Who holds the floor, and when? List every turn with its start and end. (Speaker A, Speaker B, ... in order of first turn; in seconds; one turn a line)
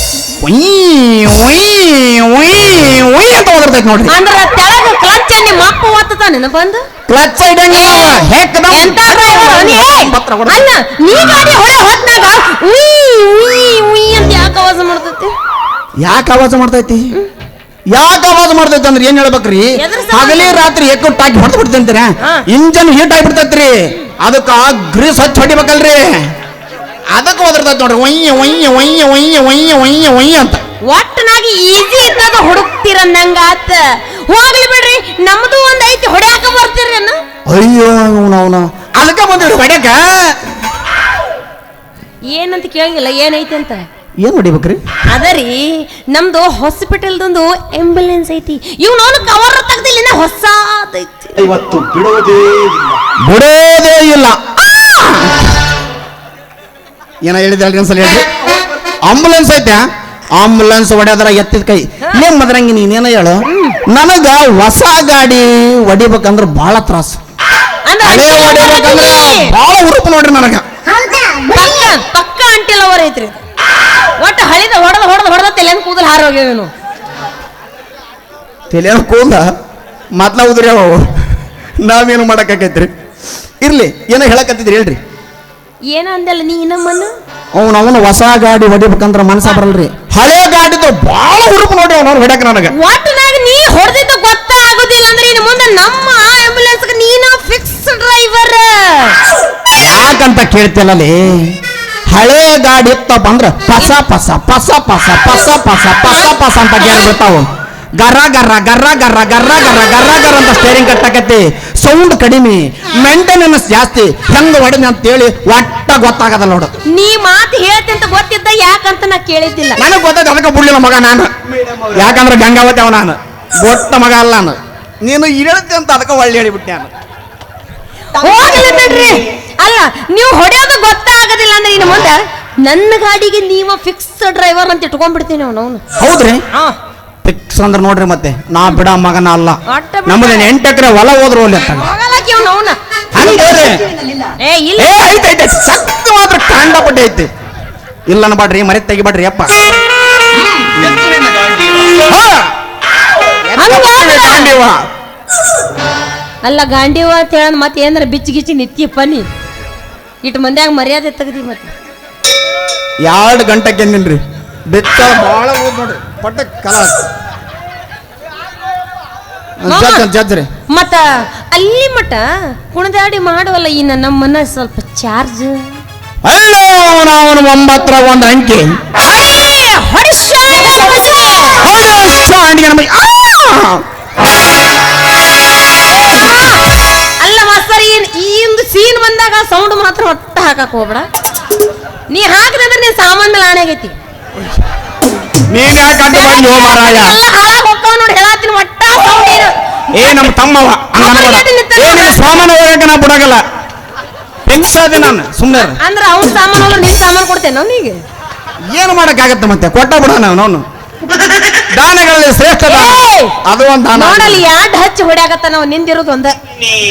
Speaker A: 0.4-4.2
Speaker B: 4.1-6.9
Speaker A: 7.1-10.7
Speaker B: 7.7-15.3
Speaker A: 16.0-17.1
Speaker A: 17.9-26.3
Speaker B: 19.8-20.7
Speaker A: 27.1-30.6
Speaker B: 30.9-37.2
Speaker A: 37.5-40.4
Speaker B: 42.3-43.8
Speaker A: 44.2-44.8
Speaker B: 45.1-51.4
Speaker C: 51.4-53.0
Speaker A: 53.2-55.4
Speaker A: 57.2-58.2
Speaker A: 59.1-59.8
Speaker A: 60.4-67.2
Speaker B: 63.5-63.8
Speaker B: 67.9-69.6
Speaker A: 68.0-70.6
Speaker B: 71.4-73.4
Speaker B: 74.2-76.7
Speaker A: 78.7-79.5
Speaker A: 80.2-81.1
Speaker A: 81.8-82.9
Speaker A: 83.6-85.0
Speaker B: 85.9-87.1
Speaker A: 87.5-92.7
Speaker B: 92.7-99.2
Speaker A: 99.8-101.5
Speaker A: 102.1-107.5
Speaker B: 106.1-106.3
Speaker A: 108.0-116.8
Speaker B: 116.9-119.8
Speaker A: 119.8-121.3
Speaker A: 121.9-126.9
Speaker B: 128.2-135.8
Speaker A: 136.0-136.4
Speaker A: 137.2-141.9
Speaker B: 139.7-140.5
Speaker B: 141.8-142.8
Speaker A: 143.1-143.8
Speaker B: 144.4-145.2
Speaker A: 144.8-147.3
Speaker A: 148.1-149.6
Speaker C: 150.9-152.0
Speaker A: 151.9-152.5
Speaker A: 153.5-154.8
Speaker B: 153.6-154.6
Speaker B: 156.4-159.3
Speaker B: 160.2-161.7
Speaker A: 163.0-167.0
Speaker A: 169.6-170.5
Speaker B: 169.7-170.1
Speaker B: 170.7-175.7
Speaker A: 176.2-178.7
Speaker B: 179.0-181.7
Speaker A: 181.5-183.8
Speaker B: 185.9-186.6
Speaker B: 187.2-191.1
Speaker B: 192.1-194.0
Speaker A: 195.5-197.2
Speaker B: 196.0-200.3
Speaker A: 199.9-203.4
Speaker B: 201.0-202.3
Speaker A: 204.5-205.8
Speaker B: 205.7-208.0
Speaker A: 208.7-210.6
Speaker A: 211.7-214.4
Speaker B: 212.7-213.3
Speaker B: 213.9-216.4